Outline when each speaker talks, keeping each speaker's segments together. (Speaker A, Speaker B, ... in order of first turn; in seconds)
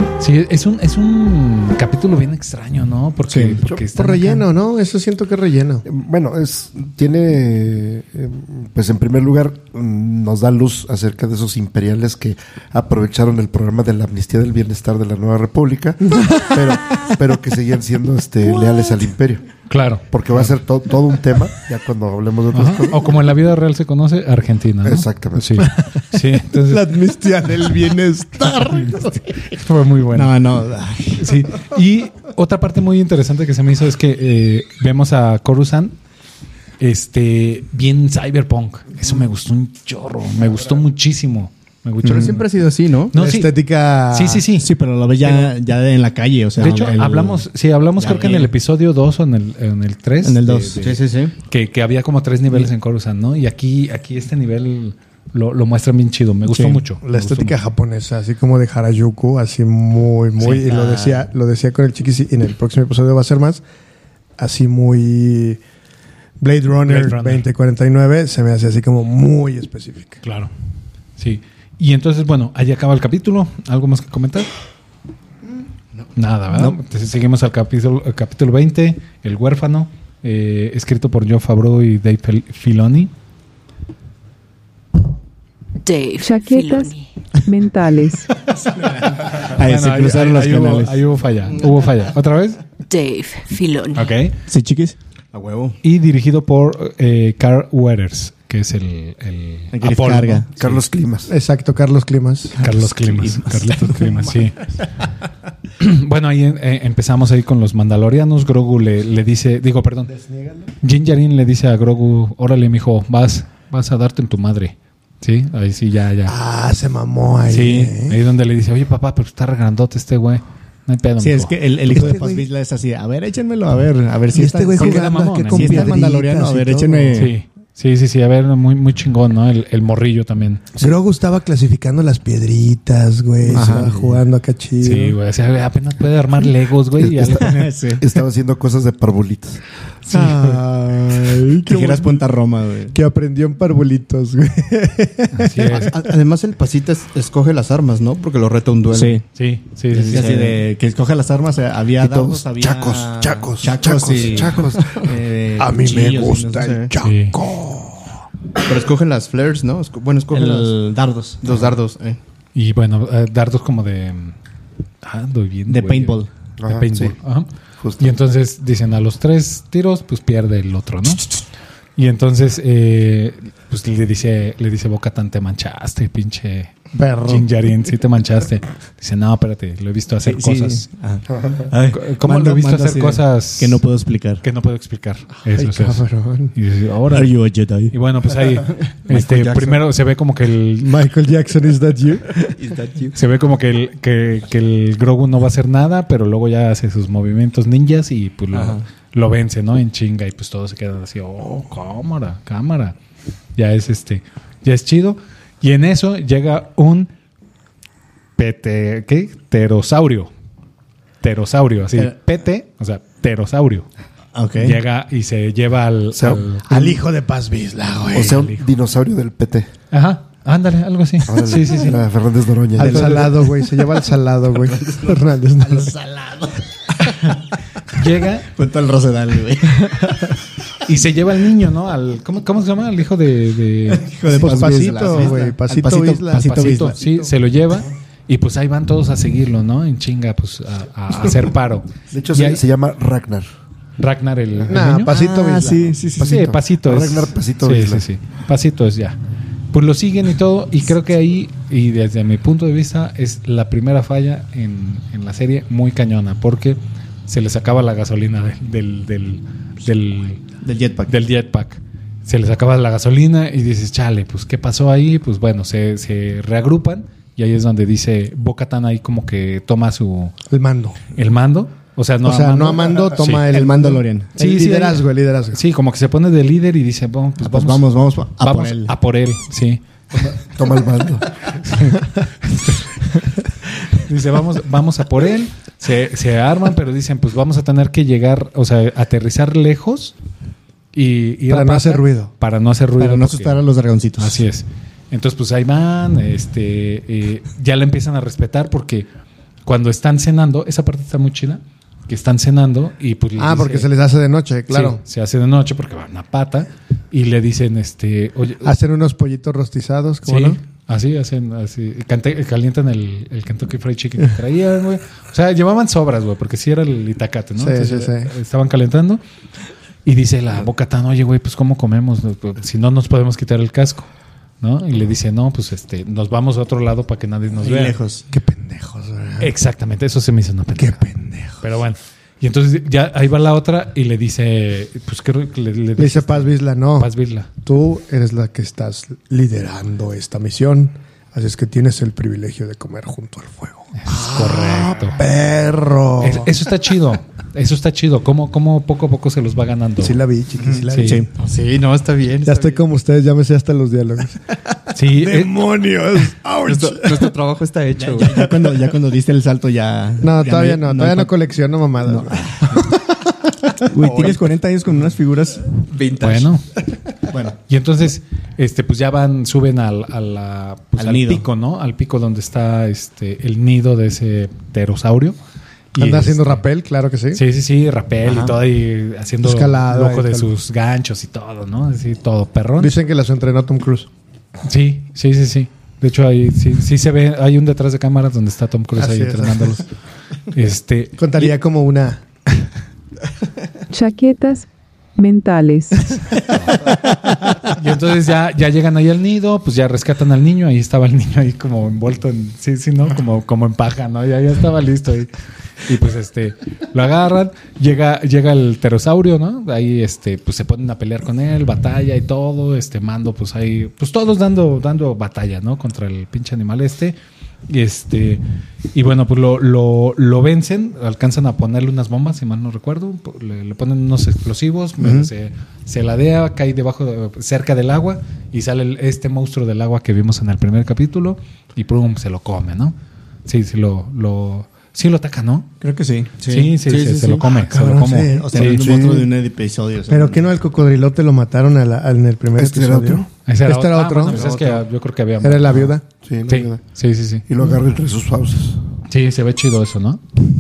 Speaker A: 0.2-4.5, 19.7-20.5, 22.5-27.0, 28.8-30.3, 31.2-36.0, 36.8-42.4, 43.1-43.5, 44.1-44.7, 46.6-51.0, 51.5-57.6, 66.8-67.5, 70.2-70.5, 71.2-74.5, 76.2-83.1, 89.4-92.6, 94.0-94.4, 95.8-100.8, 102.6-104.7, 105.8-110.1, 110.8-116.3, 117.5-122.1, 124.8-126.0, 127.2-130.7, 134.8-137.7, 140.1-140.4, 145.3-145.9, 149.3-150.4, 157.0-157.4, 162.6-164.3, 165.0-167.5, 168.0-171.3, 172.0-180.9, 181.9-183.8, 184.4-191.0, 193.1-202.9, 203.6-207.1, 208.4-210.3, 211.2-213.9, 214.6-216.8, 218.3-218.6, 219.9-222.0, 227.9-228.5, 230.8-234.6, 236.3-242.6, 244.0-245.1, 246.2-249.2, 249.7-260.4, 261.1-270.3, 271.1-273.5, 274.4-280.3, 281.5-282.9, 283.9-290.1, 290.9-293.6, 294.2-299.1, 299.6-303.9, 304.7-308.7, 310.2-319.2, 320.1-324.1, 324.6-328.0, 329.4-331.1, 331.6-337.5, 344.0-345.2, 346.2-350.2, 350.9-351.2, 354.9-355.5, 366.2-366.6, 367.6-375.4, 375.9-376.6, 377.3-382.9, 384.6-389.9, 390.5-391.5, 396.5-396.9, 397.6-405.3, 405.9-417.2, 417.7-418.4, 418.9-435.7, 436.4-438.9, 443.4-445.9, 446.5-447.4, 449.1-450.5
Speaker B: 3.3-3.6, 30.1-31.3, 44.6-47.5, 48.0-48.5, 50.2-51.0, 56.5-56.8, 60.5-61.2, 76.5-76.8, 88.7-91.0, 94.5-95.8, 99.7-100.5, 102.5-104.5, 121.2-127.3, 133.5-134.2, 137.4-138.0, 140.1-140.6, 141.7-142.9, 148.9-149.2, 149.9-155.2, 155.7-156.3, 160.3-161.8, 165.7-166.3, 180.2-184.4, 187.1-187.9, 214.3-214.8, 222.8-223.3, 224.8-227.3, 228.5-230.3, 233.9-237.0, 245.1-246.4, 260.6-261.1, 273.2-274.3, 277.4-278.9, 293.0-294.4, 327.6-328.2, 351.0-351.3, 358.0-361.3, 362.1-362.7, 363.8-365.7, 367.3-367.6, 371.0-371.5, 378.2-378.6, 425.0-425.3, 435.8-437.4, 438.3-440.5
Speaker C: 3.9-5.8, 25.8-29.4, 43.1-44.5, 45.2-45.5, 57.0-63.6, 64.4-65.6, 66.4-70.2, 101.3-102.6, 110.1-110.7, 116.3-118.2, 121.9-122.5, 124.3-127.3, 130.8-135.2, 140.1-142.3, 142.9-145.9, 152.8-154.8, 155.6-158.2, 177.0-177.5, 185.5-186.6, 190.8-192.5, 216.7-218.4, 222.8-225.9, 234.3-237.3, 244.7-246.6, 270.5-271.0, 272.2-275.6, 291.5-292.3, 303.4-305.0, 308.6-310.6, 317.6-318.3, 328.3-329.5, 330.8-331.6, 336.0-337.1, 337.6-346.5, 350.0-351.3, 352.4-354.4, 355.1-357.4, 360.2-363.1, 376.0-377.4, 379.4-380.5, 382.8-384.1, 389.0-389.8, 391.2-392.2, 437.4-439.3, 440.1-444.5, 445.4-446.1
Speaker D: 5.8-19.5, 20.1-23.2, 24.8-25.7, 100.6-101.3, 137.0-139.6, 152.0-154.9, 166.6-167.2, 167.8-168.2, 189.2-189.8, 216.1-216.9, 218.1-219.7, 221.2-223.3, 242.1-243.5, 246.7-248.1, 280.4-281.3, 442.6-443.3, 446.2-446.8, 447.5-448.9
Speaker E: 42.0-43.1, 50.8-51.3, 145.9-149.2, 150.0-150.6, 154.0-156.9, 158.6-160.8, 161.4-162.2, 192.6-193.2, 198.5-198.8, 351.4-352.9, 356.6-358.8, 364.0-364.5, 365.9-366.6, 436.9-437.3
Speaker F: 85.8-87.1, 92.9-94.2
Speaker G: 86.2-88.3, 393.9-396.2